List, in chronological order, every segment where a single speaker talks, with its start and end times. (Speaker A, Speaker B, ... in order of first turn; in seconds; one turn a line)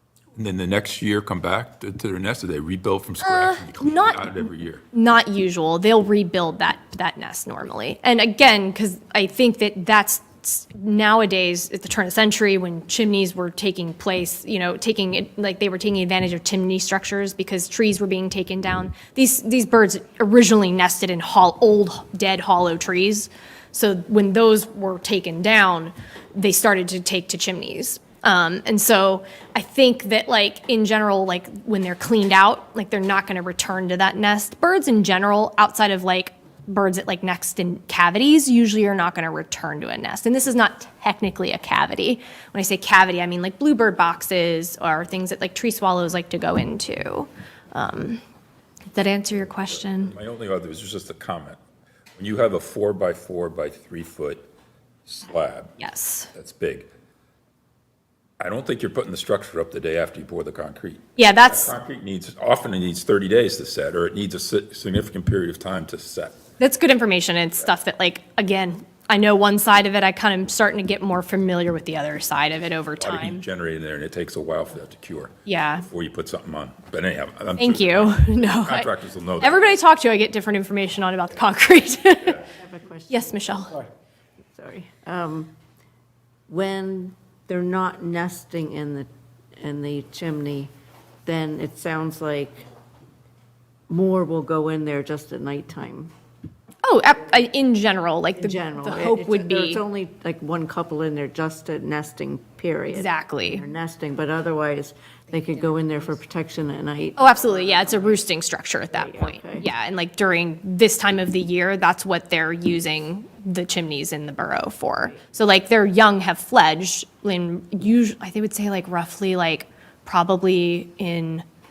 Speaker A: 0.3-4.8
Speaker B: 3.2-48.2
Speaker B: 48.9-50.1
Speaker A: 49.3-51.6
Speaker A: 52.1-54.5
Speaker A: 55.0-55.8
Speaker B: 55.8-56.3
Speaker A: 56.3-56.9
Speaker A: 58.4-66.4
Speaker B: 61.1-61.7
Speaker B: 66.6-73.4
Speaker A: 73.0-79.7
Speaker B: 75.5-75.8
Speaker B: 77.6-82.4
Speaker C: 82.4-83.4
Speaker B: 83.1-83.7
Speaker C: 84.5-85.5
Speaker C: 86.5-90.7
Speaker C: 91.2-92.7
Speaker C: 93.9-96.1
Speaker B: 96.8-99.8
Speaker C: 98.4-108.1
Speaker B: 102.9-103.6
Speaker B: 107.2-121.4
Speaker C: 108.9-109.7